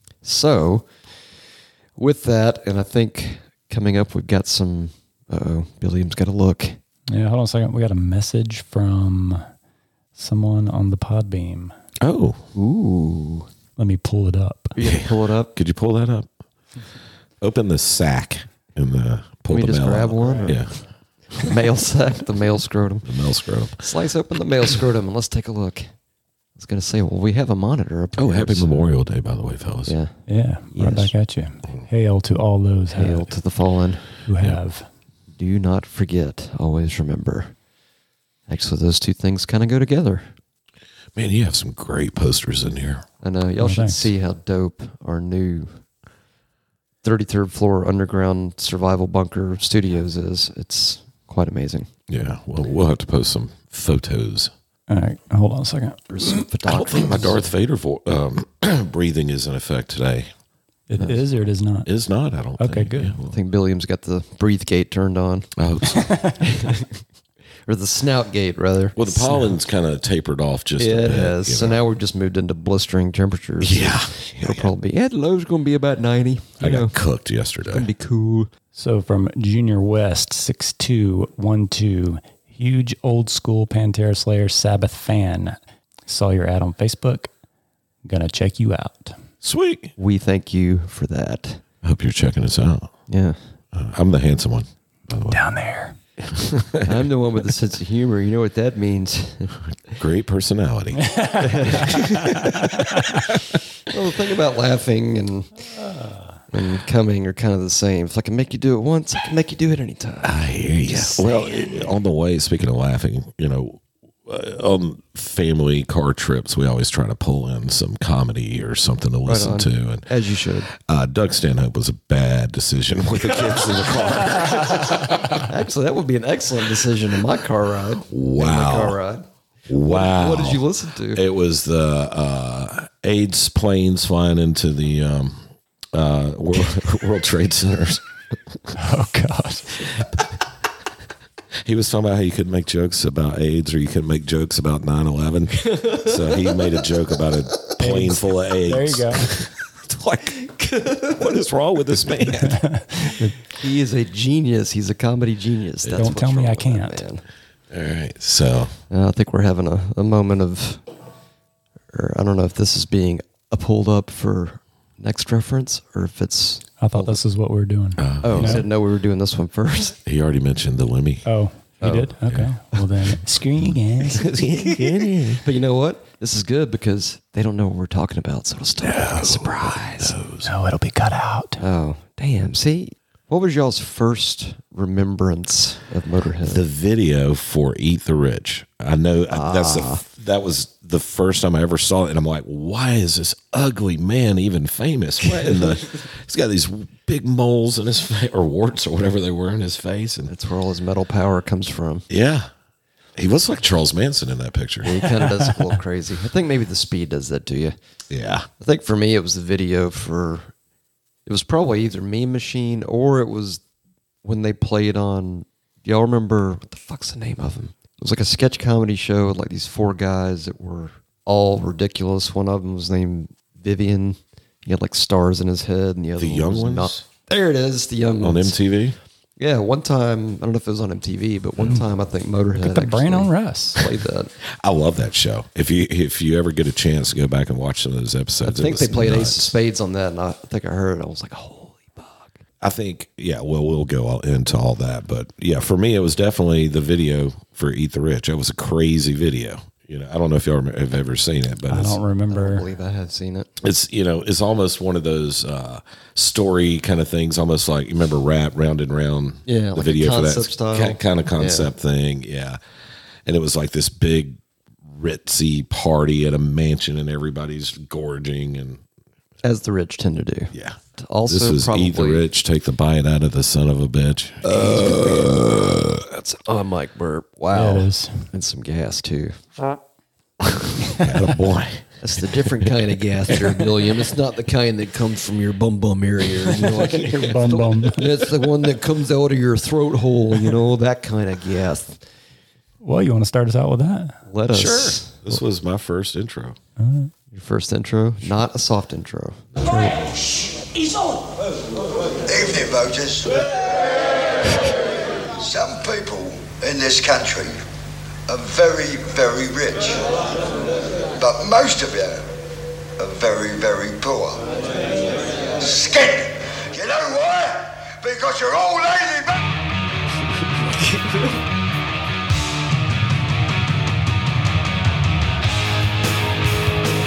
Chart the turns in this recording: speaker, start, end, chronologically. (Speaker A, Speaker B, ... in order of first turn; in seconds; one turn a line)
Speaker A: 0.2-0.9
Speaker A: 2.0-6.8
Speaker B: 7.1-9.5
Speaker B: 10.2-11.7
Speaker C: 12.0-12.4
Speaker A: 12.6-13.5
Speaker B: 13.8-14.8
Speaker A: 14.8-15.5
Speaker C: 14.8-16.3
Speaker C: 17.4-20.8
Speaker A: 19.5-20.7
Speaker A: 21.4-23.1
Speaker C: 23.1-23.8
Speaker A: 23.8-25.9
Speaker A: 26.6-28.9
Speaker C: 28.2-29.9
Speaker A: 29.9-31.1
Speaker B: 30.3-33.3
Speaker A: 32.9-34.1
Speaker B: 34.3-34.9
Speaker A: 35.4-37.5
Speaker A: 38.5-40.3
Speaker C: 41.1-43.1
Speaker A: 43.2-45.8
Speaker B: 43.6-44.1
Speaker A: 47.0-51.9
Speaker C: 52.1-54.5
Speaker B: 54.9-56.4
Speaker A: 56.1-57.4
Speaker C: 56.6-60.3
Speaker B: 60.9-61.9
Speaker A: 61.0-61.2
Speaker C: 61.9-63.3
Speaker B: 62.6-63.2
Speaker A: 63.3-65.5
Speaker C: 65.6-66.4
Speaker B: 66.1-66.3
Speaker A: 66.4-66.9
Speaker A: 67.7-69.5
Speaker C: 69.0-71.8
Speaker A: 70.8-77.0
Speaker C: 73.6-74.7
Speaker C: 76.6-77.9
Speaker A: 77.7-78.5
Speaker B: 78.7-87.3
Speaker B: 88.0-89.2
Speaker C: 89.4-89.9
Speaker A: 90.0-91.6
Speaker C: 91.8-92.9
Speaker A: 93.1-93.4
Speaker C: 93.7-95.4
Speaker B: 95.3-96.0
Speaker C: 96.2-97.0
Speaker A: 96.8-100.0
Speaker C: 100.0-103.6
Speaker B: 101.1-101.4
Speaker A: 101.4-102.5
Speaker B: 102.3-102.6
Speaker A: 103.9-105.6
Speaker A: 106.5-111.9
Speaker C: 110.2-120.1
Speaker A: 119.3-120.7
Speaker C: 120.7-125.4
Speaker A: 124.3-124.9
Speaker A: 125.4-129.3
Speaker C: 128.1-129.0
Speaker C: 129.7-138.4
Speaker A: 129.8-131.2
Speaker B: 138.8-139.8
Speaker C: 141.6-150.6
Speaker A: 145.7-146.1
Speaker B: 147.8-149.3
Speaker A: 150.5-151.2
Speaker C: 151.1-152.7
Speaker B: 152.6-153.3
Speaker A: 153.5-157.2
Speaker C: 155.9-156.2
Speaker B: 155.9-157.0
Speaker C: 157.7-158.8
Speaker A: 158.9-160.8
Speaker A: 161.9-167.2
Speaker B: 166.8-168.7
Speaker C: 168.0-168.7
Speaker A: 168.2-170.0
Speaker C: 170.1-171.3
Speaker B: 171.2-174.3
Speaker A: 171.8-172.2
Speaker C: 172.2-172.6
Speaker C: 174.0-175.5
Speaker A: 174.1-180.2
Speaker C: 178.8-180.5
Speaker B: 180.4-181.6
Speaker A: 181.6-186.6
Speaker C: 186.4-200.3
Speaker A: 189.3-190.0
Speaker A: 200.3-202.1
Speaker C: 202.1-202.5
Speaker C: 203.2-205.3
Speaker A: 204.8-207.8
Speaker C: 208.1-208.5
Speaker A: 208.6-210.5
Speaker A: 211.3-213.6
Speaker A: 214.2-228.6
Speaker C: 226.2-227.0
Speaker C: 228.2-229.0
Speaker A: 229.4-234.3
Speaker B: 232.5-233.8
Speaker C: 234.6-239.5
Speaker A: 238.4-242.4
Speaker C: 242.6-252.0
Speaker B: 251.7-252.7
Speaker A: 252.3-253.5
Speaker C: 253.6-262.6
Speaker A: 259.5-261.7
Speaker C: 263.3-268.8
Speaker A: 269.4-272.2
Speaker C: 270.5-276.0
Speaker A: 274.4-275.3
Speaker A: 276.1-279.5
Speaker B: 277.5-278.3
Speaker C: 280.9-281.9
Speaker A: 282.0-292.0
Speaker C: 282.4-282.7
Speaker C: 286.6-288.0
Speaker B: 287.1-288.1
Speaker B: 292.8-294.2
Speaker A: 294.3-295.3
Speaker C: 294.5-296.6
Speaker B: 296.8-297.1
Speaker A: 297.3-299.4
Speaker B: 299.6-300.0
Speaker D: 302.3-303.7
Speaker D: 305.4-307.6
Speaker D: 308.3-310.3
Speaker D: 311.1-312.3
Speaker D: 313.0-314.5
Speaker D: 315.6-319.4
Speaker A: 320.8-321.2